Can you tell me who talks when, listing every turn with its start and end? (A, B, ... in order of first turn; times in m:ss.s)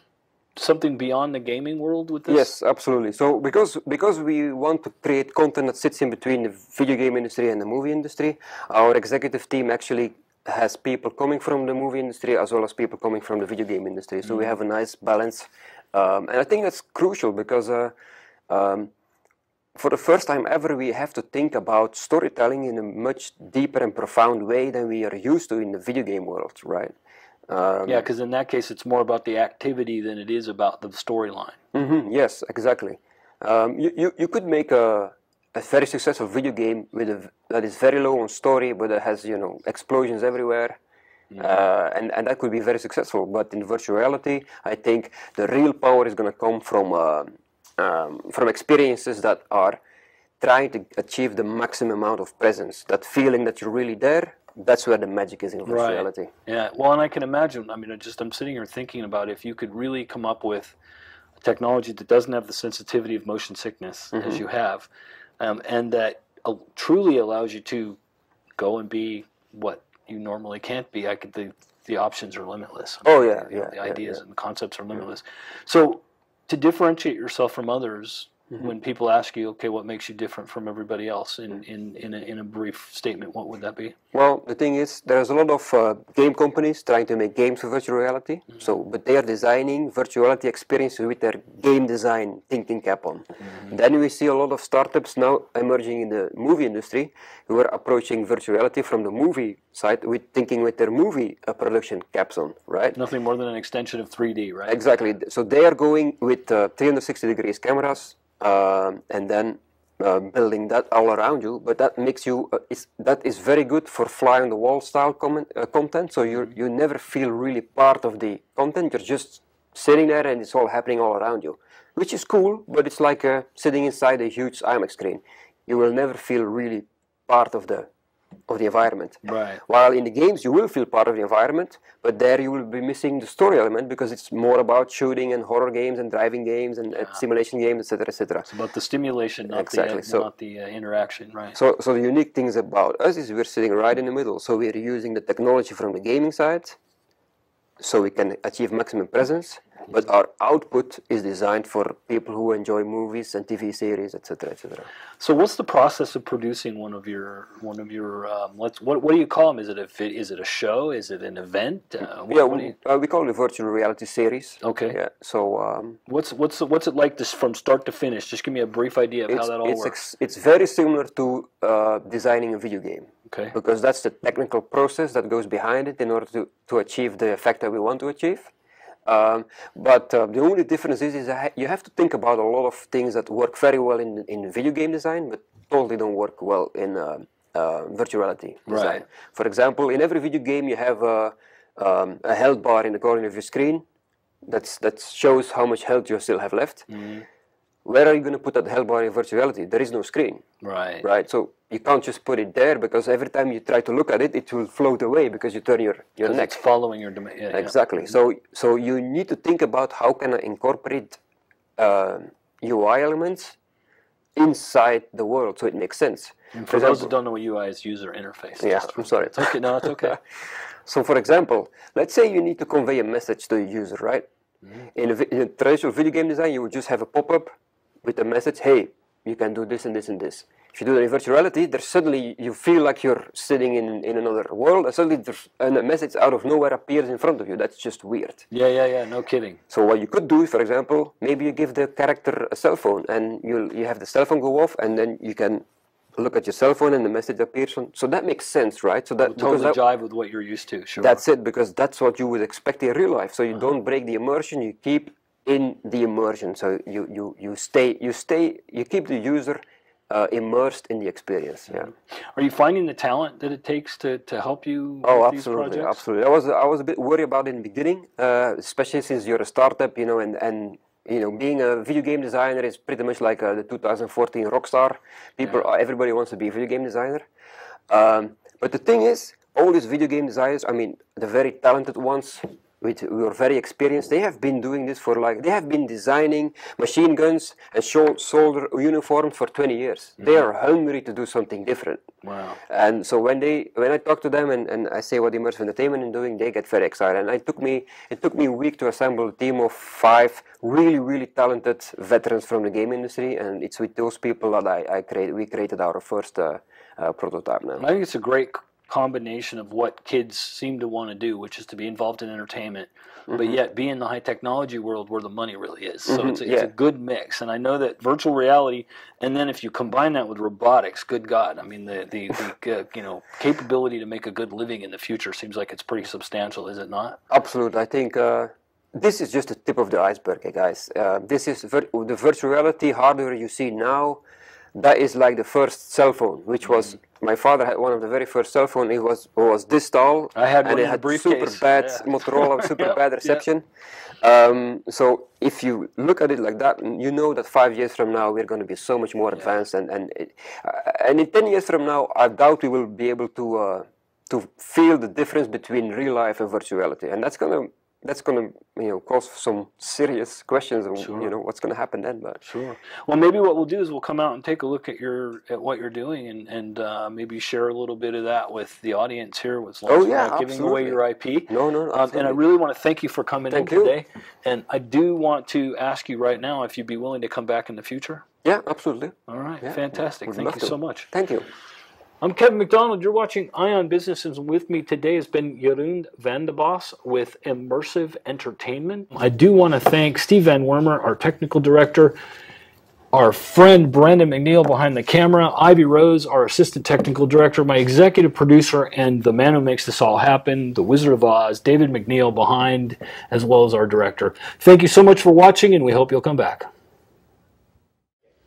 0:00.6-0:02.5 A
0:02.3-0:17.9 B
0:14.2-0:14.5 A
0:18.5-0:18.9 B
0:19.7-0:26.9 B
0:27.5-0:28.0 B
0:27.8-0:31.6 A
0:31.7-0:40.8 B
0:41.4-0:49.8 B
0:50.4-0:56.3 B
0:55.6-1:00.7 A
1:01.4-1:04.9 A
1:04.1-1:04.4 B
1:05.4-1:08.0 A
1:08.6-1:23.9 A
1:13.0-1:14.2 B
1:24.1-1:43.0 B
1:42.9-1:44.8 A
1:44.7-2:07.9 B
2:08.5-2:18.5 B
2:09.2-2:09.6 A
2:18.5-2:21.6 A
2:19.5-2:20.3 B
2:21.5-2:26.8 B
2:27.8-2:34.9 B
2:35.2-2:42.7 A
2:42.3-2:46.0 B
2:44.6-2:45.0 A
2:46.1-2:50.0 A
2:49.3-2:58.5 B
2:53.3-2:53.5 A
2:59.0-3:13.8 B
3:08.7-3:09.0 A
3:14.4-3:16.9 B
3:16.9-3:17.2 A
3:17.8-3:20.4 B
3:20.6-3:21.0 A
3:21.0-3:26.6 B
3:26.2-3:27.7 A
3:27.5-3:31.2 B
3:31.8-3:33.6 B
3:34.4-3:37.1 B
3:36.5-3:40.2 A
3:38.6-3:40.2 B
3:40.8-3:44.2 B
3:44.9-3:47.5 B
3:48.0-3:58.4 B
3:58.5-3:59.6 A
3:59.7-4:05.6 B
4:06.2-4:09.8 B
4:09.2-4:11.2 A
4:11.0-4:21.9 B
4:22.3-4:26.0 A
4:25.0-4:37.2 B
4:37.9-4:52.0 B
4:52.2-4:52.6 A
4:52.7-5:07.8 B
5:07.8-5:27.2 A
5:13.3-5:13.6 B
5:16.0-5:16.7 B
5:27.3-5:34.2 B
5:34.8-5:43.6 B
5:40.3-5:43.4 A
5:44.2-6:02.4 B
6:01.0-6:01.3 A
6:02.4-6:18.2 A
6:09.9-6:12.4 B
6:13.5-6:14.0 B
6:18.4-6:21.4 B
6:19.3-6:21.1 A
6:22.2-6:32.2 A
6:33.1-6:46.7 A